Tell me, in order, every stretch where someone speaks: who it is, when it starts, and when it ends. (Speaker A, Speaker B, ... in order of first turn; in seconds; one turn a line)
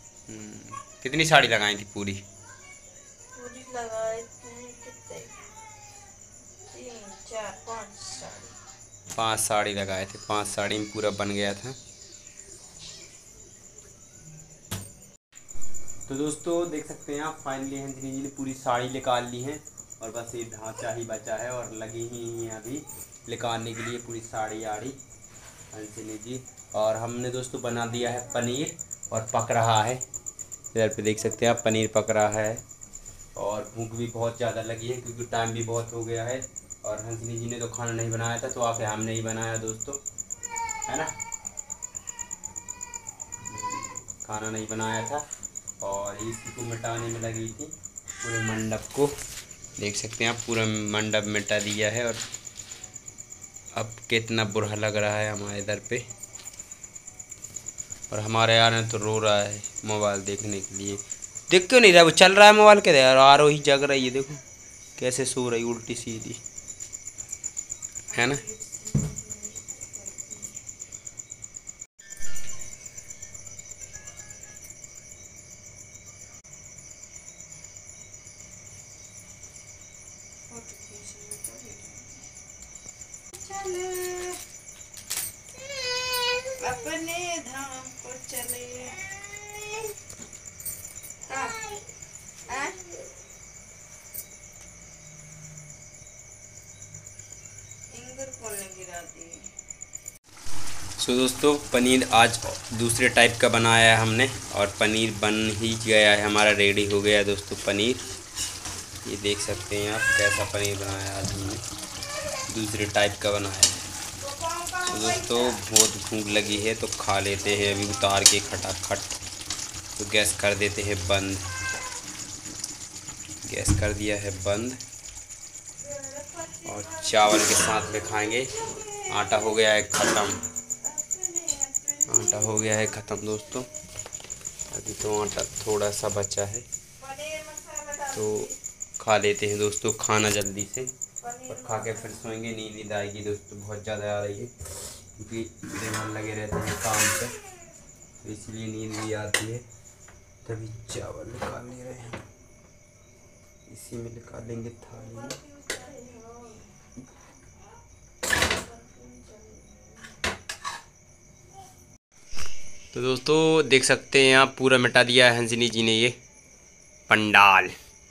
Speaker A: 0.3-2.2
Speaker B: 3.4-5.4
Speaker B: 6.7-8.5
Speaker A: 9.1-11.8
Speaker A: 16.1-25.0
Speaker A: 25.7-30.0
Speaker A: 30.7-32.6
Speaker A: 33.4-40.0
Speaker A: 43.5-45.2
Speaker A: 45.8-47.7
Speaker A: 48.2-49.1
Speaker A: 49.8-52.2
Speaker A: 53.7-56.0
Speaker A: 58.1-64.4
Speaker A: 65.0-66.4
Speaker A: 68.1-68.4
Speaker B: 68.2-70.5
Speaker B: 80.5-82.2
Speaker B: 83.3-84.4
Speaker B: 86.4-89.2
Speaker B: 91.3-91.8
Speaker B: 92.5-92.8
Speaker B: 97.9-99.5
Speaker A: 101.0-108.0
Speaker A: 109.0-111.6
Speaker A: 112.5-113.8
Speaker B: 114.3-115.3
Speaker A: 114.8-119.1
Speaker A: 120.0-121.5
Speaker A: 123.4-124.8
Speaker B: 125.8-127.4
Speaker A: 126.6-130.4
Speaker B: 130.8-133.3
Speaker A: 132.1-133.7
Speaker A: 134.7-136.6
Speaker B: 137.0-138.6
Speaker A: 138.1-140.9
Speaker B: 141.2-142.2
Speaker A: 141.5-147.3
Speaker A: 148.2-149.6
Speaker A: 150.4-152.2
Speaker A: 153.7-155.3
Speaker B: 155.1-156.7
Speaker B: 158.4-160.0
Speaker A: 162.9-166.2
Speaker A: 167.1-167.7